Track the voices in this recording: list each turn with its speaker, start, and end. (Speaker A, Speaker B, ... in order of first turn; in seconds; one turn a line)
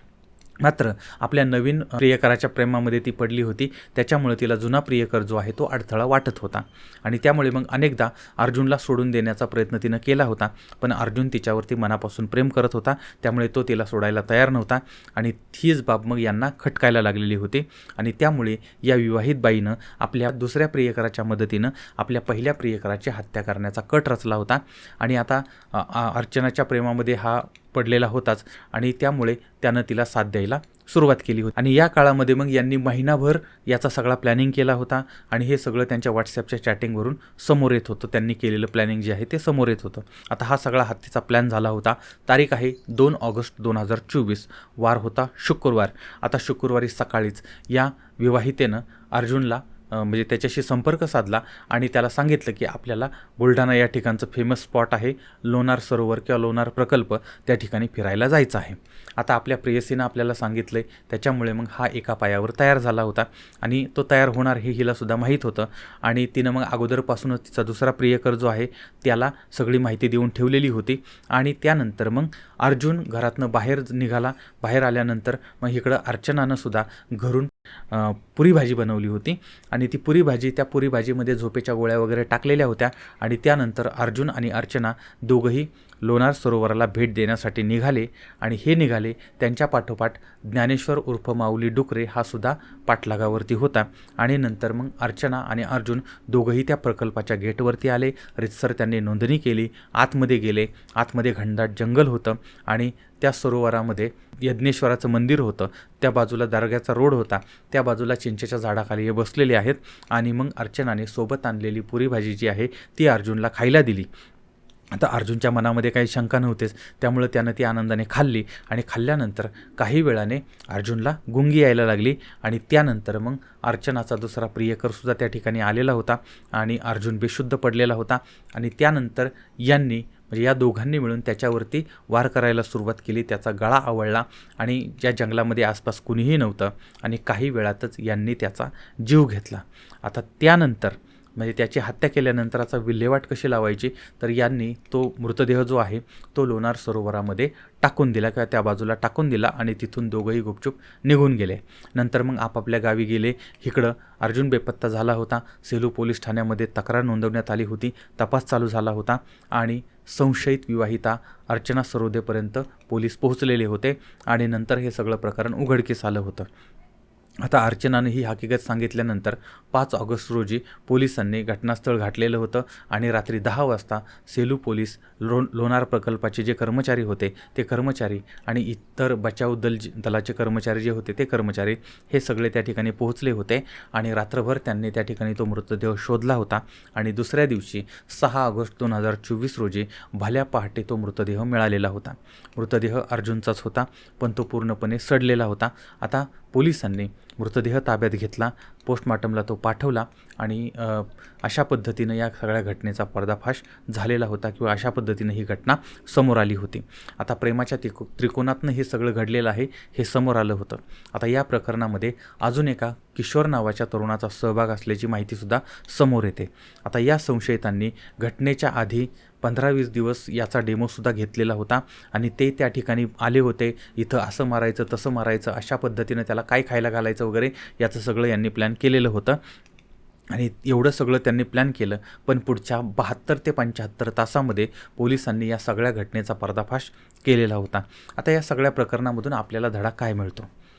Speaker A: 0.6-114.1
Speaker A: 114.9-166.5
Speaker A: 167.4-229.4
Speaker A: 230.3-240.5